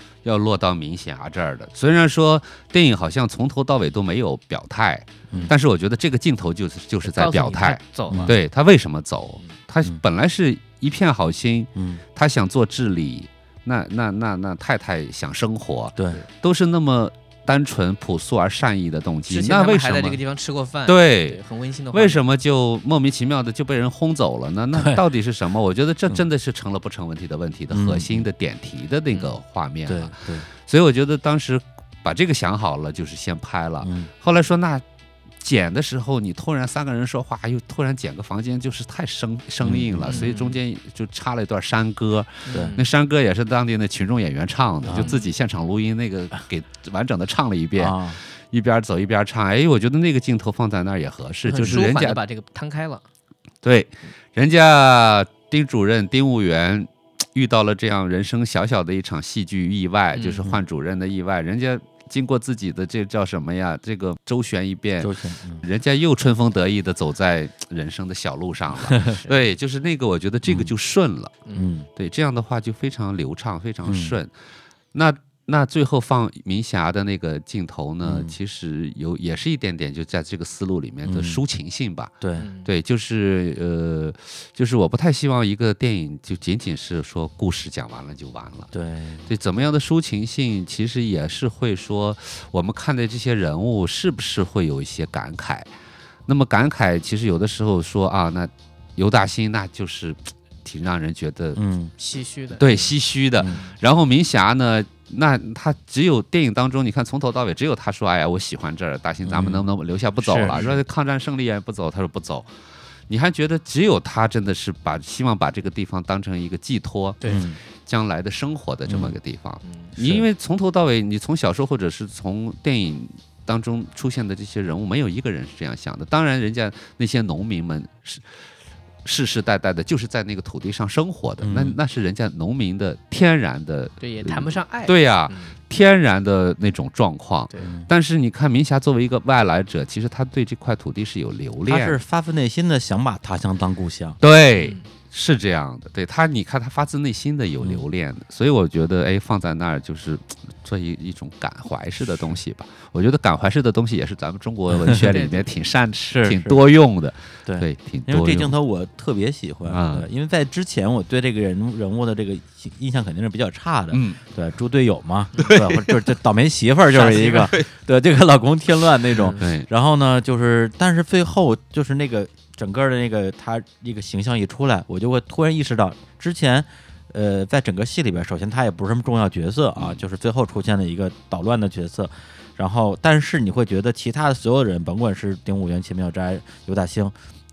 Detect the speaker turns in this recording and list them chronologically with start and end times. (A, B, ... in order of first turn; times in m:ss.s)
0:00.2-0:20.2 A
0:07.0-0:08.3 B
0:08.1-0:08.4 C
0:11.7-0:12.0 C
0:16.0-0:16.2 C
0:19.3-0:22.2 B
0:20.8-0:21.4 A
0:21.9-0:34.8 A
0:24.7-0:25.0 C
0:27.7-0:28.2 C
0:29.9-0:30.5 C
0:33.8-0:34.1 C
0:35.4-0:52.2 A
0:39.6-0:40.3 C
0:40.1-0:40.6 B
0:42.4-0:42.9 B
0:42.5-0:42.8 C
0:44.8-0:45.1 C
0:44.9-0:45.3 B
0:47.8-0:48.2 C
0:51.5-0:53.0 B
0:53.6-1:11.4 A
1:00.1-1:00.5 B
1:05.0-1:05.6 C
1:10.4-1:10.7 C
1:11.5-1:11.9 C
1:12.0-1:14.3 A
1:13.8-1:14.2 C
1:14.9-1:22.1 A
1:18.0-1:18.3 C
1:21.0-1:21.4 C
1:22.2-1:22.5 C
1:22.4-1:22.7 B
1:22.6-1:28.7 A
1:28.7-1:29.3 C
1:29.2-1:35.7 A
1:36.3-1:41.6 A
1:41.6-1:41.9 C
1:42.0-1:43.0 B
1:42.6-1:52.5 A
1:49.2-1:49.6 C
1:50.2-1:50.6 C
1:50.5-1:50.8 B
1:53.1-2:08.5 A
1:57.2-1:57.6 C
1:58.9-1:59.2 C
1:59.6-1:59.9 B
2:09.0-2:22.0 A
2:11.4-2:11.8 C
2:14.0-2:15.6 B
2:21.7-2:24.2 C
2:24.2-2:38.6 A
2:24.6-2:24.8 B
2:32.0-2:32.4 C
2:35.0-2:35.5 B
2:36.1-2:36.6 C
2:37.4-3:07.1 C
2:39.6-2:40.1 A
2:43.9-2:44.2 A
2:45.4-2:46.2 A
2:46.9-2:47.7 A
2:49.4-2:49.7 A
2:59.8-3:00.0 A